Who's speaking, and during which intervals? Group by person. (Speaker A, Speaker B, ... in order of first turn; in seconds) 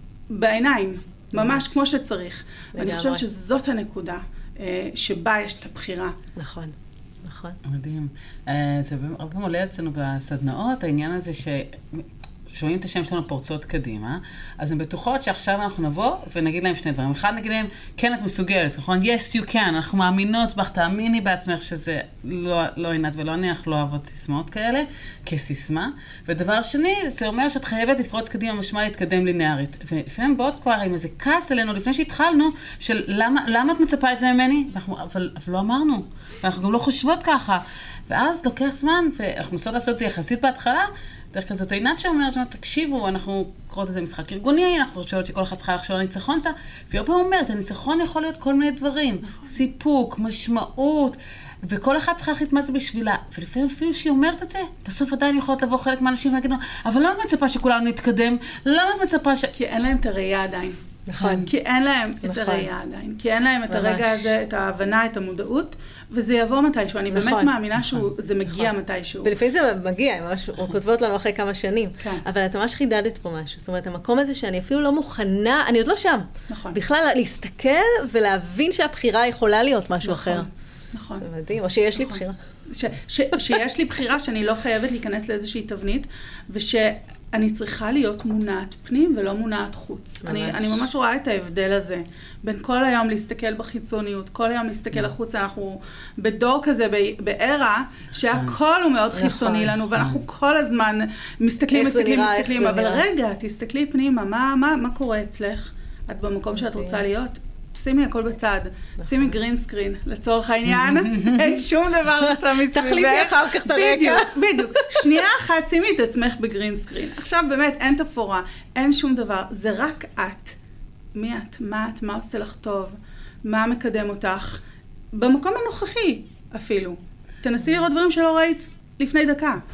Speaker A: 0.3-6.2, 59.5-69.3, 76.5-76.8, 80.0-81.3, 82.0-120.6, 121.1-129.6
Speaker B: 1.4-1.6, 2.8-3.2, 6.4-7.6, 61.1-61.5, 62.2-62.7, 63.7-64.3, 67.1-67.5, 69.2-80.5, 81.2-82.4, 90.2-90.8, 99.1-99.8, 101.7-103.1, 106.7-107.0, 112.6-115.2
Speaker C: 7.6-59.5